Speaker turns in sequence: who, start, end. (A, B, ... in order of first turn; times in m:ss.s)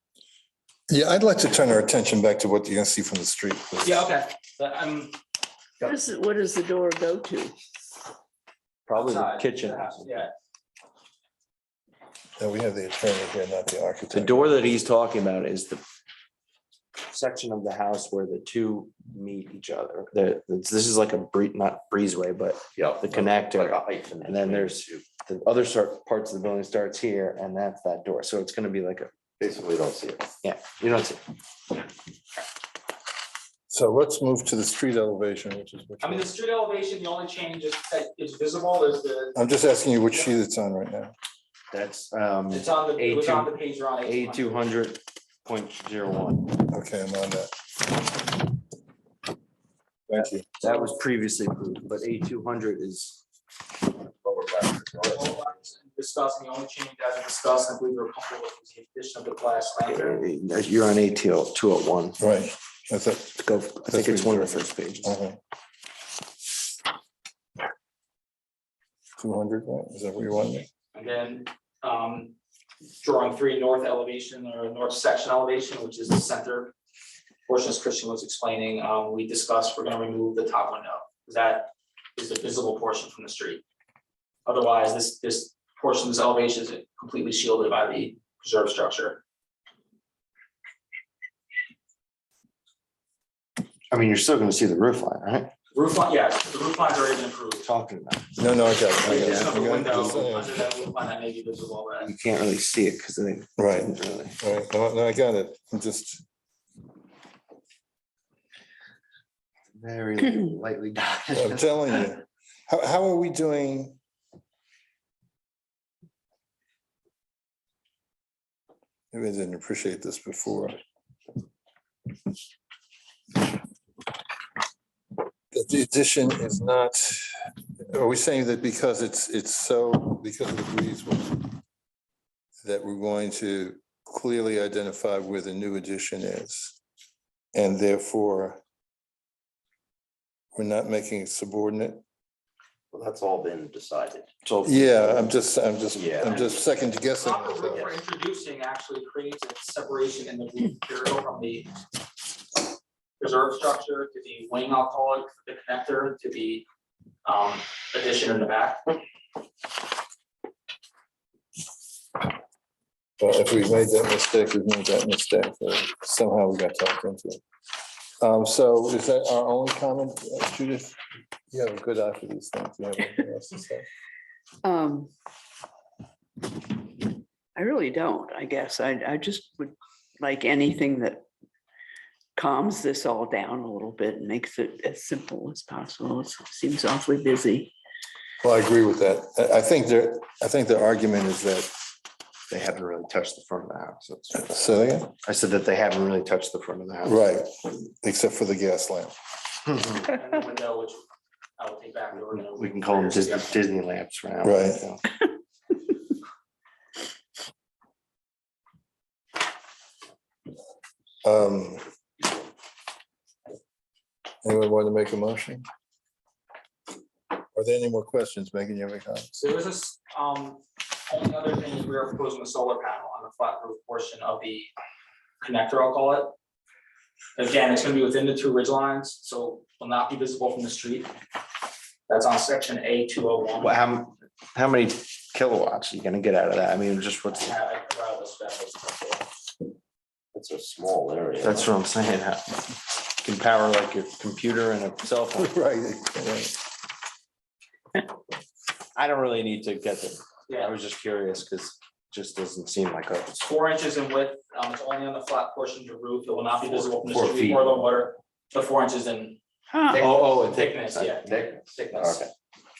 0:00.9-0:04.1 A
0:03.8-0:05.2 B
0:05.8-0:07.6 C
0:08.9-0:10.2 D
0:09.0-0:10.3 B
0:12.4-0:14.7 A
0:14.1-0:15.8 D
0:17.1-0:29.1 D
0:22.8-0:25.1 E
0:29.4-0:30.3 E
0:30.4-0:31.2 D
0:33.7-0:36.3 A
0:36.0-0:39.4 B
0:39.3-0:41.1 A
0:41.7-0:43.5 D
0:42.5-0:44.6 B
0:44.0-0:46.6 D
0:46.7-0:47.6 A
0:50.1-0:50.6 A
0:50.2-0:53.2 D
0:54.0-0:55.4 D
0:55.0-1:00.1 B
0:59.8-1:02.2 D
1:02.2-1:05.4 A
1:03.4-1:05.1 D
1:09.2-1:10.7 A
1:10.9-1:12.4 B
1:13.0-1:16.7 B
1:17.5-1:23.6 B
1:24.5-1:29.2 B
1:33.9-1:35.5 D
1:35.7-1:37.7 B
1:37.6-1:40.1 D
1:38.4-1:40.6 A
1:39.1-1:42.1 B
1:42.0-1:44.4 D
1:43.6-1:46.2 A
1:49.7-1:52.0 D
1:51.4-1:54.0 A
1:59.1-2:00.8 A
2:05.5-2:07.3 A
2:07.8-2:11.5 A
2:12.6-2:16.8 A
2:17.5-2:18.6 A
2:20.5-2:22.0 A
2:22.9-2:25.4 E
2:24.6-2:28.0 A
2:25.9-2:26.6 E
2:27.2-2:31.7 B
2:33.2-2:36.6 B
2:37.2-2:38.9 B
2:43.2-2:47.4 A
2:48.2-2:51.0 A
2:51.5-2:53.8 A
2:54.6-2:55.1 C
2:57.6-3:01.2 C
3:02.4-3:07.7 C
3:08.4-3:11.7 A
3:12.5-3:14.6 D
3:14.3-3:15.1 A
3:15.2-3:17.2 D
3:17.0-3:19.1 A
3:20.0-3:21.0 B
3:21.6-3:23.6 B
3:22.3-3:25.0 D
3:24.4-3:24.9 A
3:31.2-3:31.8 A
3:34.4-3:35.7 A
3:37.5-3:39.3 A
3:39.3-3:44.7 B
3:45.4-3:46.3 B
3:47.4-3:51.1 B
3:52.1-3:53.8 B
3:53.6-3:57.5 D
3:57.3-3:59.3 B
4:00.3-4:01.7 E
4:01.4-4:05.5 D
4:05.4-4:06.6 A
4:09.0-4:13.4 D
4:10.5-4:10.7 B
4:13.4-4:19.4 B
4:16.7-4:17.8 D
4:19.7-4:20.0 C
4:19.9-4:22.2 D
4:20.5-4:22.2 B
4:21.3-4:22.3 E